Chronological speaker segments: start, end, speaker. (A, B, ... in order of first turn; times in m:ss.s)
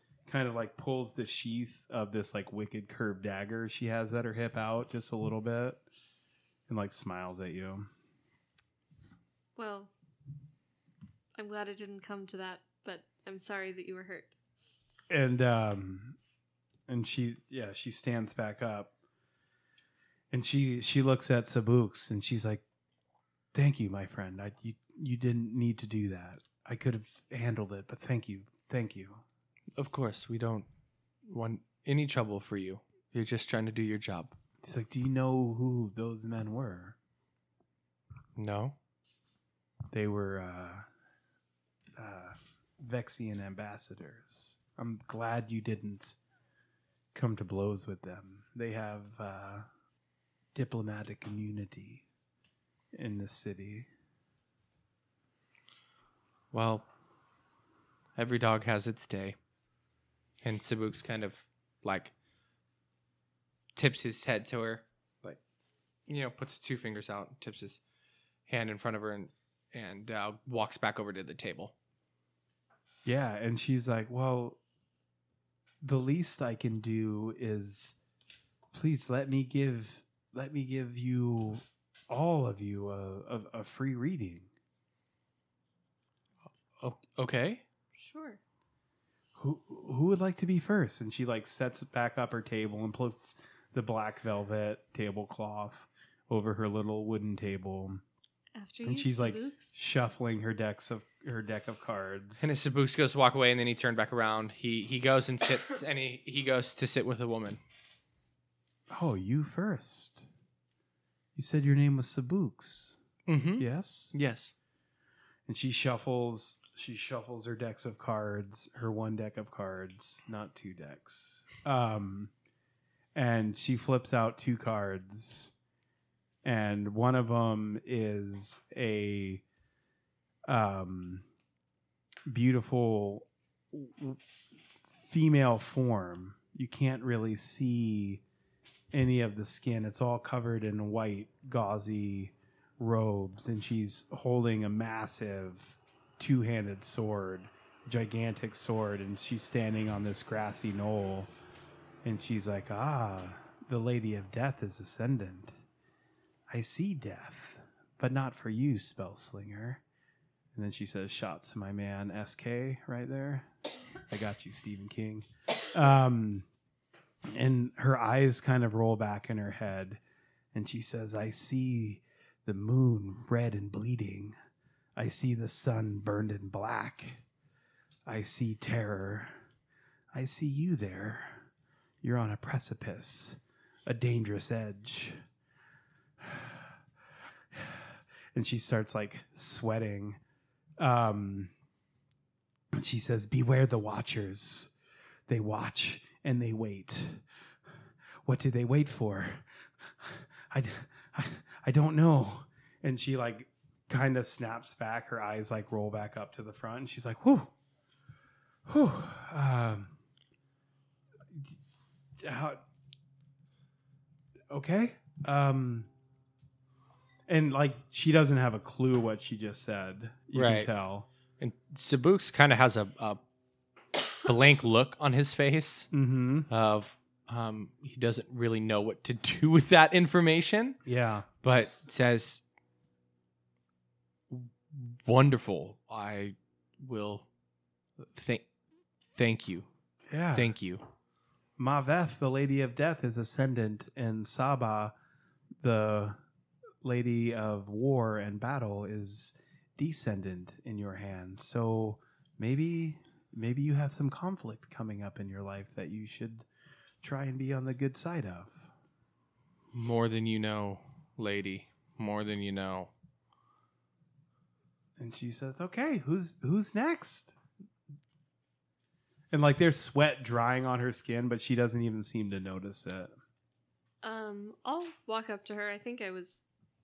0:00.3-0:05.8 A
0:06.7-0:07.9 A
0:09.0-0:09.9 B
0:11.4-0:14.3 B
0:15.1-0:16.2 A
0:16.9-0:18.9 A
0:20.3-0:22.6 A
0:23.5-0:29.2 A
0:29.8-0:30.7 C
0:31.3-0:34.4 C
0:34.6-0:37.0 A
0:38.4-0:38.8 C
0:39.9-0:40.9 A
0:42.0-0:46.2 A
0:47.1-0:49.7 A
0:50.6-0:52.0 A
0:52.9-0:53.9 A
0:56.5-0:56.9 C
0:58.2-0:59.4 C
1:00.4-1:02.1 C
1:03.8-1:05.4 C
1:06.1-1:07.8 C
1:08.5-1:11.7 C
1:13.0-1:14.6 A
1:15.8-1:18.0 A
1:18.7-1:24.5 A
1:26.8-1:27.6 C
1:28.0-1:28.4 B
1:29.4-1:38.0 A
1:38.6-1:39.8 B
1:38.8-1:42.6 A
1:42.4-1:47.6 C
1:48.9-1:50.3 A
1:51.4-1:53.0 A
1:53.3-1:54.5 C
1:53.6-1:54.1 A
1:55.5-2:02.3 A
2:03.2-2:05.5 A
2:06.4-2:09.4 A
2:10.5-2:11.2 A
2:12.3-2:14.2 A
2:14.8-2:18.2 A
2:18.9-2:31.3 A
2:32.0-2:35.6 A
2:36.5-2:39.8 A
2:40.5-2:43.5 A
2:44.1-2:46.5 A
2:47.3-2:50.0 A
2:50.5-2:54.4 A
2:55.0-2:57.2 A
2:58.1-2:59.4 A
3:00.1-3:01.5 A
3:02.0-3:05.2 A
3:06.2-3:06.7 A
3:07.5-3:10.2 A
3:10.8-3:11.5 A
3:12.7-3:14.7 A
3:15.3-3:17.2 A
3:18.3-3:27.5 A
3:28.7-3:29.9 A
3:32.2-3:32.6 A
3:34.5-3:35.9 A
3:37.3-3:41.1 A
3:40.3-3:40.7 C
3:41.4-3:43.2 C
3:44.1-3:45.9 C
3:45.9-3:46.5 A
3:46.5-3:50.8 C
3:50.8-3:51.3 A
3:51.4-3:52.4 C
3:54.3-3:57.3 C
3:58.0-3:58.4 C
3:59.2-3:59.7 C
4:00.1-4:00.6 A
4:00.3-4:00.8 C
4:01.6-4:04.9 A
4:05.6-4:06.2 A
4:06.8-4:16.5 A
4:17.0-4:18.7 A
4:19.7-4:22.9 C
4:25.0-4:27.3 A
4:29.3-4:33.1 A
4:34.0-4:36.4 B